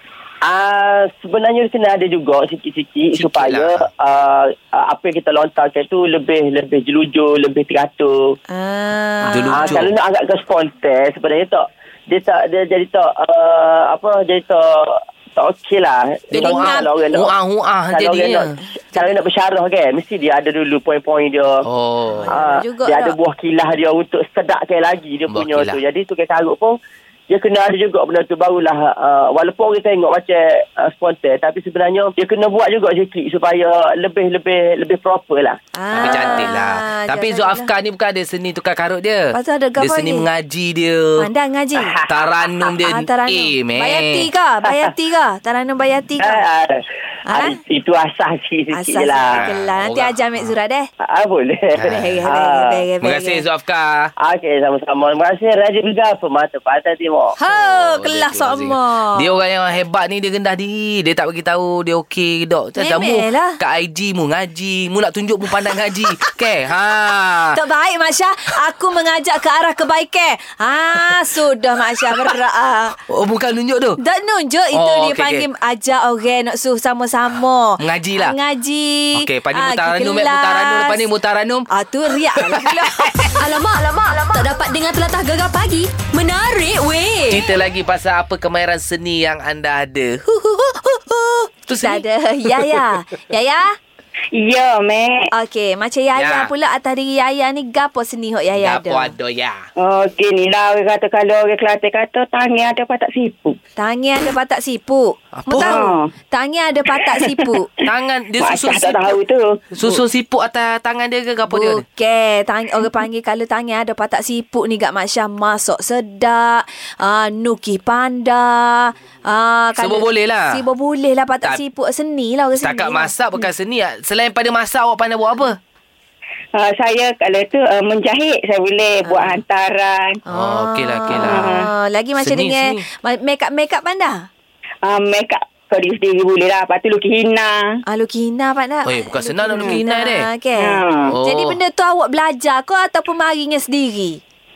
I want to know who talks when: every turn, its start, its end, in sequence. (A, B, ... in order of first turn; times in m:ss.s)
0:00.4-0:08.4 A
0:03.2-0:03.9 B
0:08.5-0:09.8 C
0:09.2-0:09.9 B
0:09.5-0:17.3 A
0:16.3-0:18.5 B
0:16.3-0:16.9 C
0:17.9-0:21.6 A
0:21.6-0:22.3 B
0:22.1-0:23.2 C
0:22.3-0:26.8 A
0:25.3-0:25.8 B
0:27.3-0:36.3 A
0:35.8-0:37.7 C
0:35.9-0:41.3 B
0:39.3-0:40.3 C
0:41.2-0:42.0 C
0:41.8-0:42.5 A
0:42.1-0:44.3 B
0:42.8-0:46.4 C
0:46.2-0:49.4 A
0:47.3-0:47.6 C
0:48.7-0:50.9 C
0:49.3-0:50.5 B
0:51.0-0:52.9 A
0:51.8-0:52.3 B
0:51.8-0:53.4 C
0:53.0-0:54.1 B
0:54.2-0:57.4 A
0:57.4-0:59.3 C
0:57.5-1:07.6 B
1:02.8-1:03.6 C
1:07.5-1:13.0 C
1:12.1-1:12.4 B
1:13.1-1:14.0 B
1:14.0-1:21.1 C
1:14.7-1:15.5 B
1:17.8-1:18.4 B
1:19.1-1:21.7 B
1:21.7-1:23.3 C
1:22.4-1:23.3 B
1:23.4-1:27.4 D
1:27.3-1:32.8 B
1:31.8-1:33.7 C
1:34.3-1:35.3 E
1:35.3-1:39.1 C
1:36.2-1:36.5 B
1:38.6-1:39.7 B
1:39.8-1:43.6 E
1:43.8-1:47.7 C
1:45.3-1:45.9 B
1:45.6-1:46.1 E
1:47.0-1:47.8 E
1:47.9-1:49.2 B
1:48.4-1:49.6 E
1:49.7-1:51.8 B
1:51.5-2:03.1 C
1:59.8-2:00.6 B
2:02.6-2:05.6 B
2:06.5-2:10.2 E
2:09.1-2:09.4 C
2:10.3-2:11.6 B
2:10.3-2:14.3 C
2:11.2-2:11.7 E
2:12.2-2:12.8 B
2:14.8-2:17.8 E
2:17.9-2:24.2 C
2:18.9-2:20.3 B
2:20.6-2:21.2 E
2:21.1-2:21.6 B